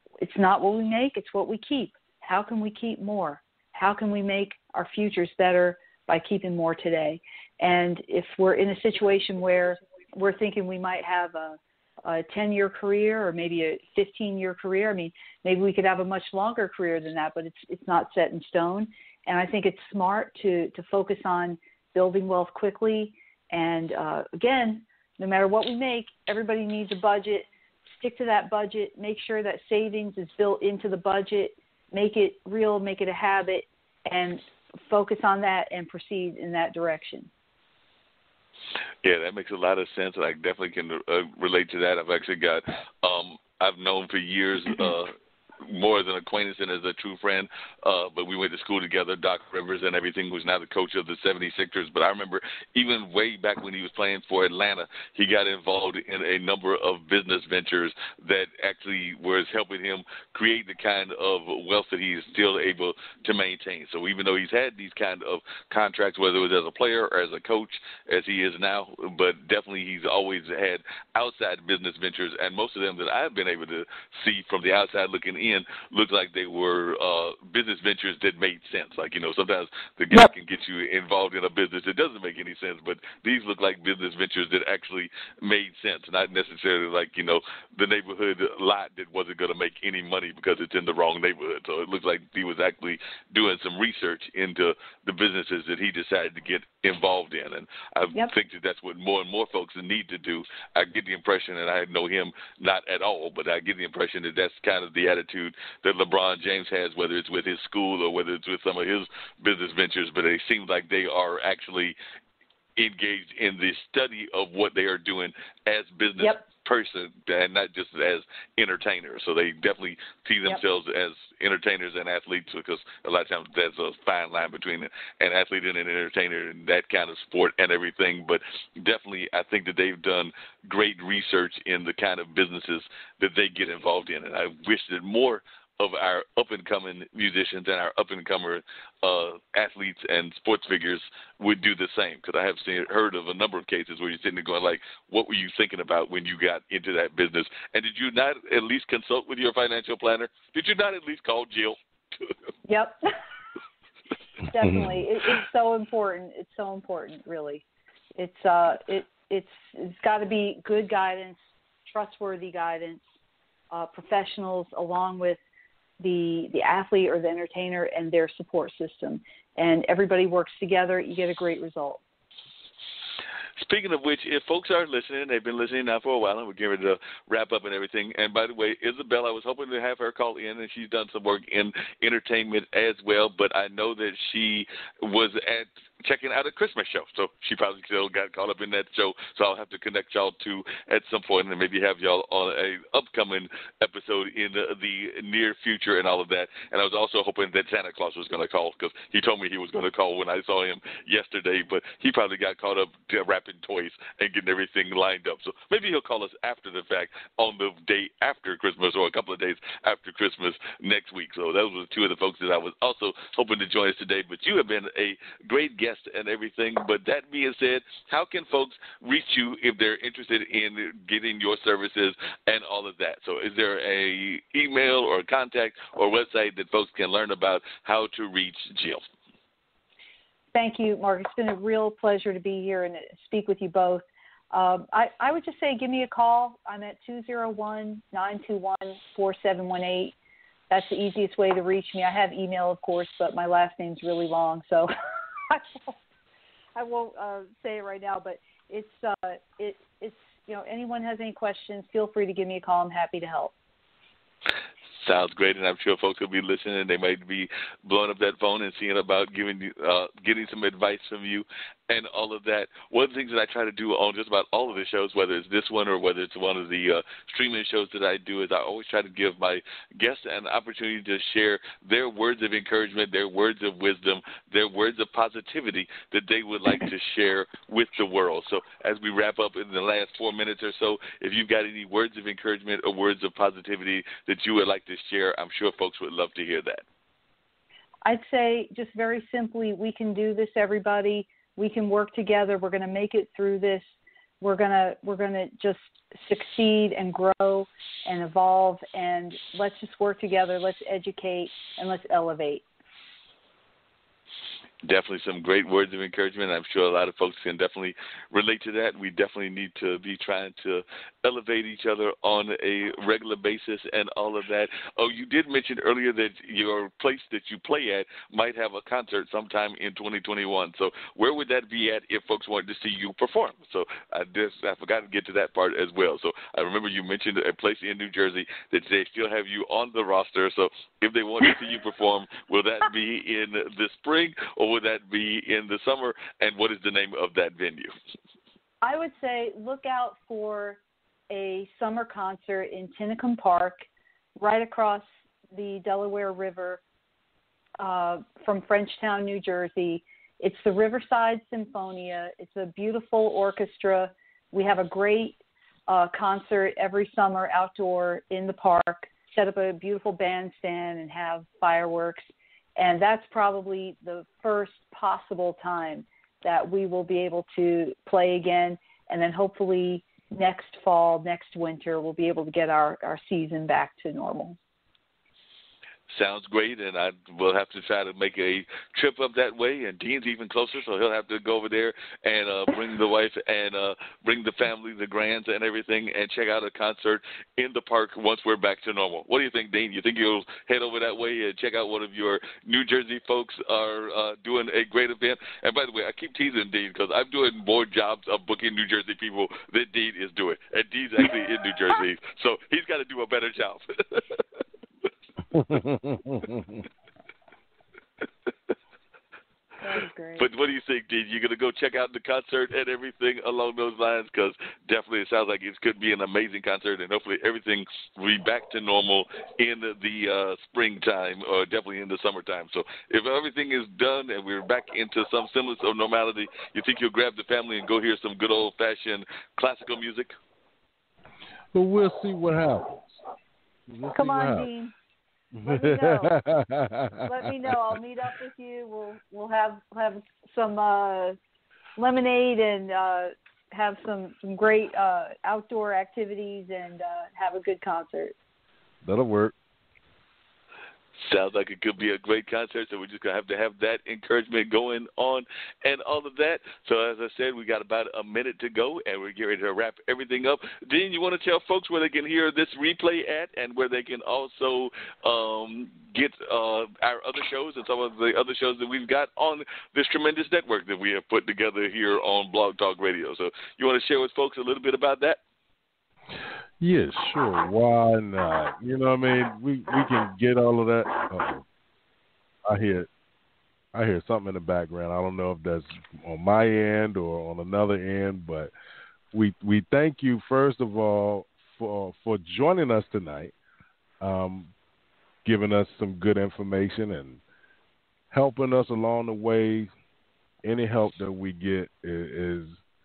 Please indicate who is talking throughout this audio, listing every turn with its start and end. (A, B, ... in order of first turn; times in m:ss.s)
0:00.2-0:37.3 A
0:39.0-1:52.0 B
1:52.8-2:32.3 B
2:32.7-2:33.0 A
2:34.5-2:37.6 A
2:34.6-2:35.0 C
2:38.2-2:41.4 A
2:41.9-2:43.0 A
2:43.7-2:45.4 A
2:46.0-2:52.0 A
2:53.6-3:49.0 B
3:50.5-4:00.1 A
4:00.7-4:04.9 A
4:05.5-4:06.0 A
4:06.8-4:13.5 A
4:15.0-4:46.8 B
4:48.0-4:53.8 A
4:54.4-5:02.6 A
5:04.8-5:37.9 B
5:38.8-5:43.8 A
5:44.4-5:46.8 A
5:47.8-6:02.2 A
6:02.8-6:14.6 A
6:16.1-6:44.4 B
6:45.5-6:46.8 C
6:49.8-6:50.4 A
6:50.4-7:10.3 B
7:11.7-7:13.2 C
7:13.9-7:14.7 C
7:14.1-7:14.9 A
7:15.5-7:17.9 C
7:15.6-7:16.4 A
7:17.2-7:21.4 A
7:22.0-7:28.3 A
7:29.0-7:29.5 C
7:31.2-7:55.4 B
7:56.8-8:01.6 C
8:02.6-8:03.1 C
8:03.9-8:08.7 C
8:09.3-8:13.5 C
8:14.2-8:14.7 C
8:15.4-8:17.4 C
8:18.3-8:19.9 C
8:20.6-8:22.8 C